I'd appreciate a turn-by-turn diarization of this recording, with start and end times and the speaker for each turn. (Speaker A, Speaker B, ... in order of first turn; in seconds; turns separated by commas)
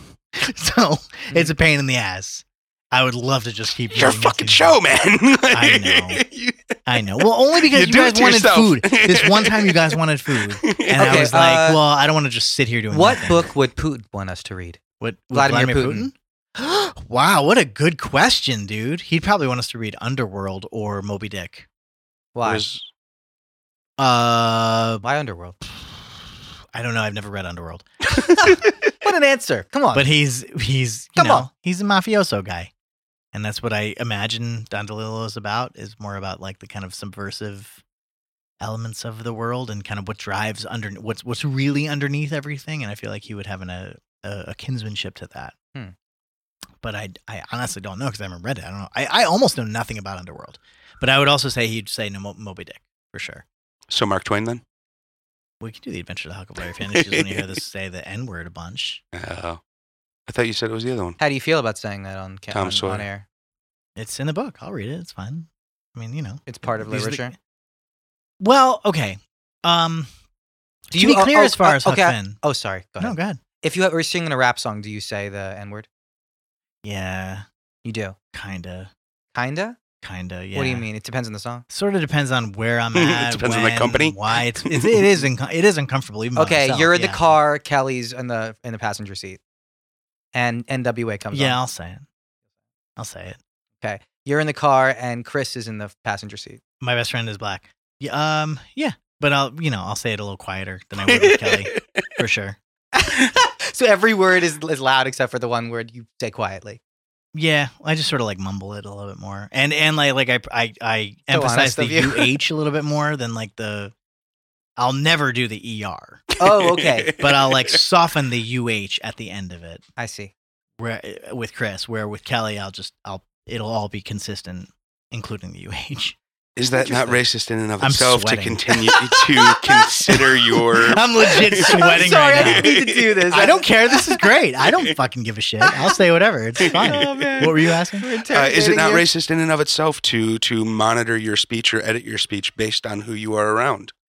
Speaker A: 0.4-4.8, Speaker B: 3.9-11.3, Speaker A: 5.5-6.2, Speaker A: 6.9-13.5, Speaker C: 11.0-11.8, Speaker C: 12.9-14.8, Speaker A: 15.0-21.6, Speaker C: 15.3-16.1, Speaker C: 22.3-22.6, Speaker B: 22.4-22.9, Speaker A: 24.0-25.0, Speaker C: 25.0-25.6, Speaker A: 26.7-28.5, Speaker C: 28.1-30.1, Speaker A: 29.9-32.7, Speaker C: 31.2-31.4, Speaker A: 33.3-37.8, Speaker A: 38.6-45.5, Speaker A: 46.8-53.4, Speaker B: 53.9-54.6, Speaker A: 55.6-59.0, Speaker B: 56.8-57.6, Speaker B: 59.1-59.6, Speaker B: 60.3-61.2, Speaker C: 61.2-63.2, Speaker B: 62.5-63.1, Speaker A: 64.0-67.3, Speaker C: 66.5-67.3, Speaker A: 68.4-70.1, Speaker A: 70.9-72.4, Speaker C: 70.9-75.9, Speaker A: 73.0-73.4, Speaker A: 76.8-77.4, Speaker C: 77.8-78.2, Speaker A: 78.3-78.9, Speaker C: 79.3-79.8, Speaker A: 80.0-80.9, Speaker C: 80.5-81.6, Speaker A: 81.7-87.3, Speaker B: 82.9-85.2, Speaker C: 86.4-89.4, Speaker C: 90.3-91.6, Speaker A: 91.3-92.1, Speaker A: 93.0-93.4, Speaker C: 93.8-96.6, Speaker A: 96.8-102.6, Speaker B: 101.1-101.8, Speaker C: 102.9-106.8, Speaker A: 107.3-113.9, Speaker C: 111.3-112.4, Speaker A: 114.8-116.2, Speaker B: 116.3-117.8, Speaker C: 116.4-117.2, Speaker A: 117.2-119.8, Speaker C: 120.0-120.3, Speaker A: 120.8-126.2, Speaker B: 126.6-133.2, Speaker A: 127.8-132.7, Speaker C: 131.3-134.3, Speaker A: 133.3-138.1, Speaker B: 136.7-137.5, Speaker C: 136.7-139.1, Speaker B: 138.3-143.9